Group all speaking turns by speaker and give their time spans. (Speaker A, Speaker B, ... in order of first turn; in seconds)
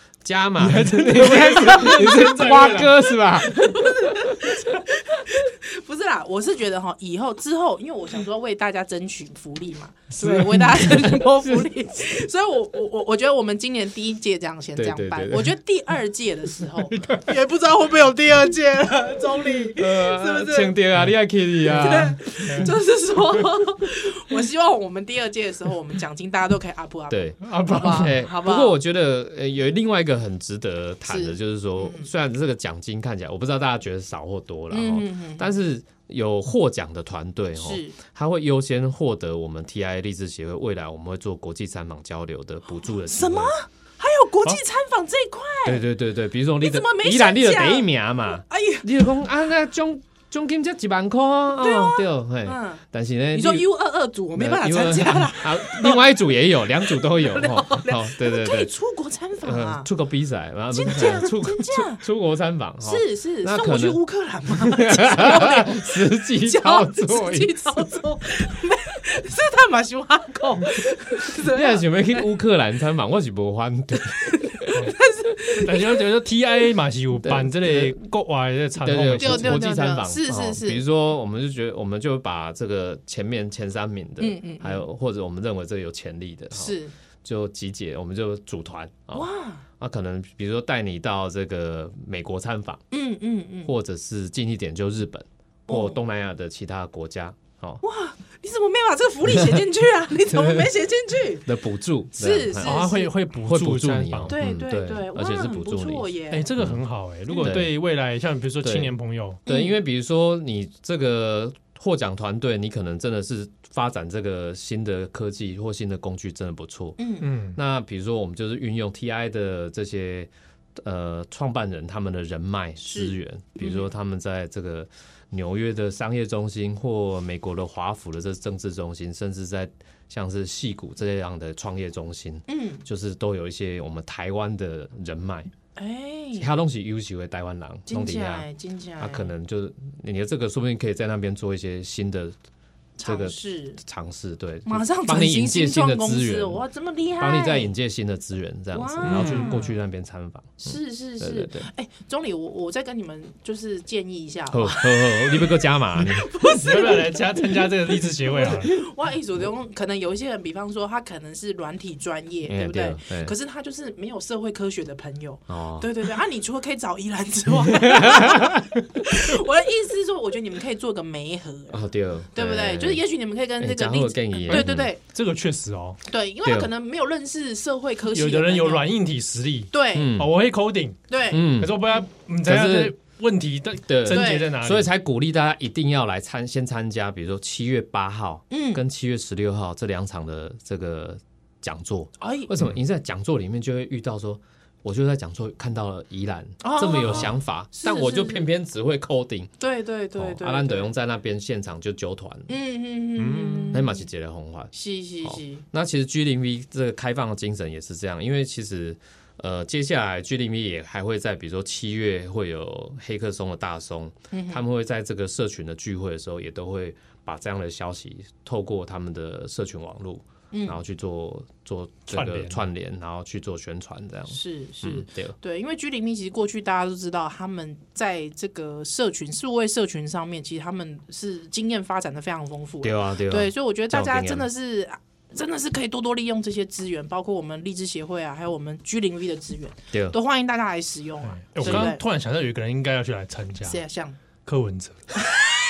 Speaker A: 0.2-4.5, 14.8-15.6, 19.7-22.2, 27.1-43.5, 45.6-53.7, 54.3-58.7, 59.4-67.8, 71.4-74.8, 77.2-78.0, 78.8-92.8, 93.7-97.8, 99.3-99.6, 100.3-100.7, 101.5-106.8, 107.4-107.7, 108.6-109.0, 109.5-135.5, 136.4-138.5, 139.0-142.4, 143.0-146.6, 147.2-151.7, 154.5-156.3, 162.4-163.3, 165.5-165.9, 167.7-168.7, 171.7-173.0, 173.6-174.9, 176.4-176.7, 179.9-180.3, 181.3-181.9, 182.4-182.9, 183.9-199.6, 200.2-202.5, 203.7-204.7, 205.2-225.3, 232.8-234.5, 241.6-241.9
Speaker B: 0.6-3.0, 10.2-11.2, 21.7-22.7, 27.4-28.2, 75.6-79.7, 102.6-104.3, 106.3-109.4, 117.2-117.6, 149.0-149.7, 156.4-158.8, 174.5-176.0, 178.1-181.0, 181.6-184.9, 203.2-203.8, 222.1-222.6, 241.3-243.8, 244.5-245.1
Speaker C: 1.4-2.8, 3.4-20.8, 21.7-28.8, 31.1-32.1, 34.7-35.5, 37.6-38.0, 43.0-45.8, 46.6-48.9, 51.6-52.8, 53.3-56.2, 56.8-59.9, 60.7-62.0, 62.8-72.3, 74.2-76.0, 79.2-80.8, 84.2-84.8, 86.5-86.9, 89.1-89.6, 92.9-93.7, 95.7-96.0, 97.8-101.5, 102.2-103.1, 104.3-106.5, 107.3-107.6, 109.5-109.8, 117.0-117.3, 122.8-123.9, 132.5-132.8, 135.8-136.5, 137.9-139.3, 143.0-143.8, 144.7-147.7, 148.7-149.7, 150.6-171.8, 172.3-175.0, 176.1-178.9, 179.7-180.2, 181.1-181.6, 184.1-184.5, 188.5-188.8, 192.2-192.5, 196.6-198.5, 199.6-200.9, 202.5-204.0, 204.7-205.6, 214.3-214.6, 220.5-220.8, 224.3-242.0, 243.6-244.2